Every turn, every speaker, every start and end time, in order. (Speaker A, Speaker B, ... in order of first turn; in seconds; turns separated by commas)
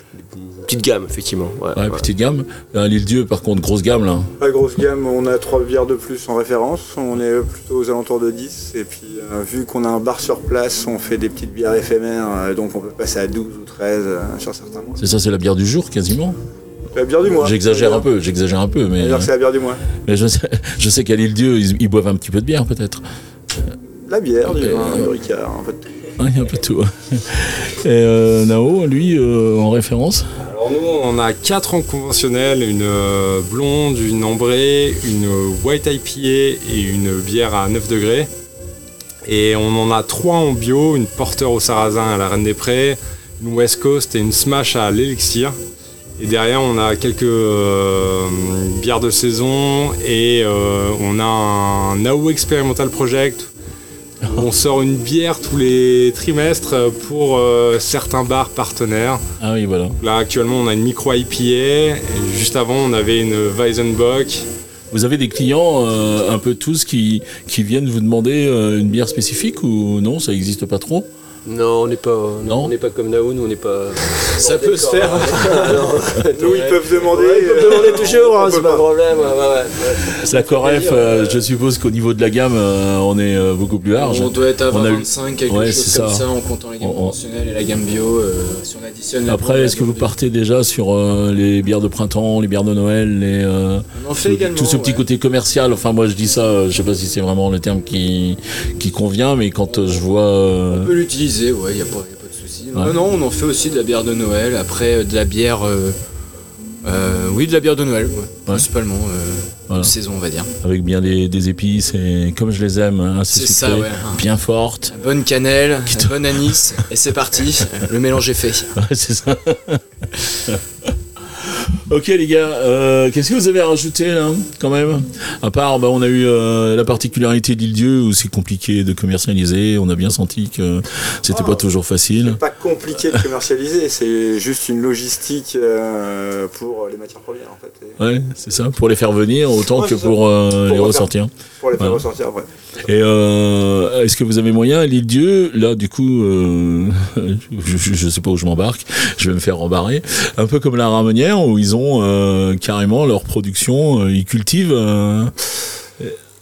Speaker A: 0.2-2.0, Speaker B: 1.8-4.3, Speaker C: 4.4-15.0, Speaker B: 15.0-16.4, Speaker C: 16.9-18.1, Speaker B: 17.3-19.3, Speaker C: 19.0-19.8, Speaker B: 20.0-23.0, Speaker C: 24.1-25.9, Speaker B: 24.5-25.1, Speaker B: 26.2-30.2, Speaker D: 30.4-38.3, Speaker D: 39.2-45.6, Speaker D: 46.2-53.5, Speaker D: 54.2-59.2, Speaker B: 59.4-60.0, Speaker D: 60.0-64.5, Speaker B: 64.9-71.1, Speaker A: 71.5-81.4, Speaker B: 72.5-72.7, Speaker E: 74.3-77.1, Speaker C: 76.3-78.9, Speaker B: 80.0-86.3, Speaker E: 83.9-90.1, Speaker B: 86.8-87.2, Speaker B: 89.3-100.9, Speaker E: 93.9-95.0, Speaker E: 100.7-106.0, Speaker E: 106.8-110.5, Speaker B: 109.7-109.9, Speaker B: 110.6-114.9, Speaker E: 113.3-114.3, Speaker E: 114.9-118.7, Speaker B: 115.9-116.2, Speaker B: 118.8-120.6, Speaker B: 121.4-132.4, Speaker C: 131.3-138.0, Speaker B: 138.0-142.0, Speaker C: 139.7-142.5, Speaker B: 142.8-155.3